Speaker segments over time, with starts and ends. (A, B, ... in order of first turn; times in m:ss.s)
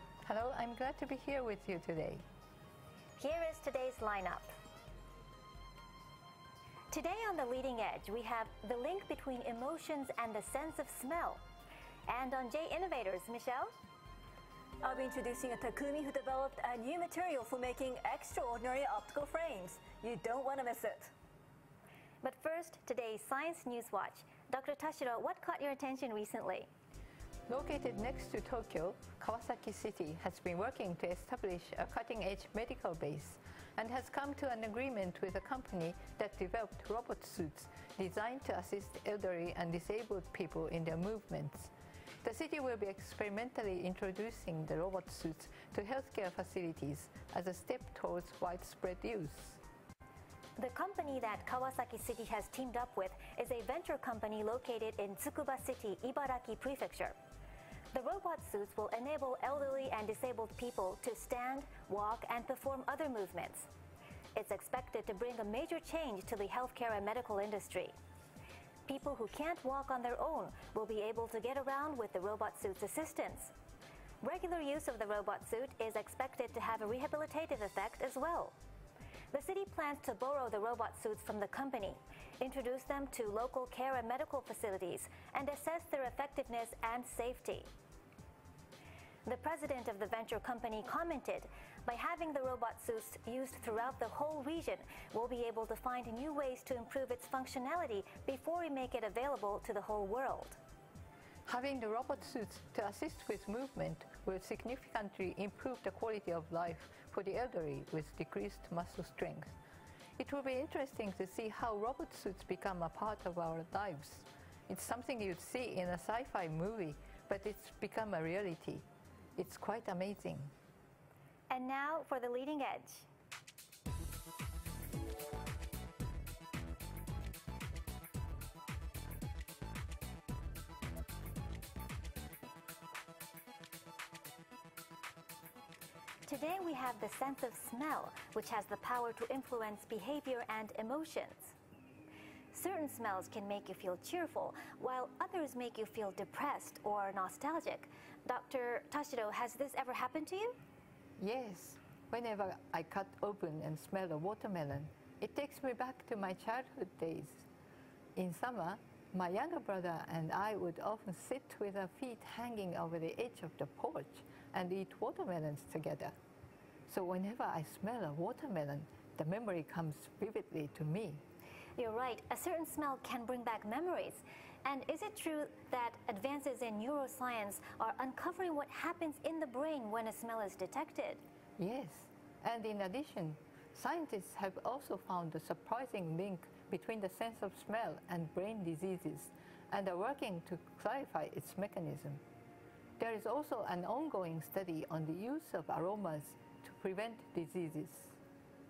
0:00.2-0:02.2 A
0:03.2-0:04.5 B
0:06.9-0:11.4 B
0:12.1-0:13.7 B
0:14.8-0:21.1 C
0:22.2-0:26.7 B
0:27.5-0:49.6 A
0:50.6-0:57.2 B
0:57.9-1:03.7 B
1:04.3-1:08.0 B
1:08.9-1:13.5 B
1:14.2-1:18.6 B
1:19.3-1:27.7 B
1:29.2-1:40.6 B
1:41.4-1:49.6 A
1:50.2-2:00.5 A
2:01.5-2:03.1 B
2:16.2-2:21.6 B
2:22.5-2:30.6 B
2:31.2-2:37.4 A
2:38.2-2:46.1 A
2:46.9-2:51.2 A
2:51.8-3:01.2 B
3:01.6-3:12.2 A
3:13.0-3:18.2 A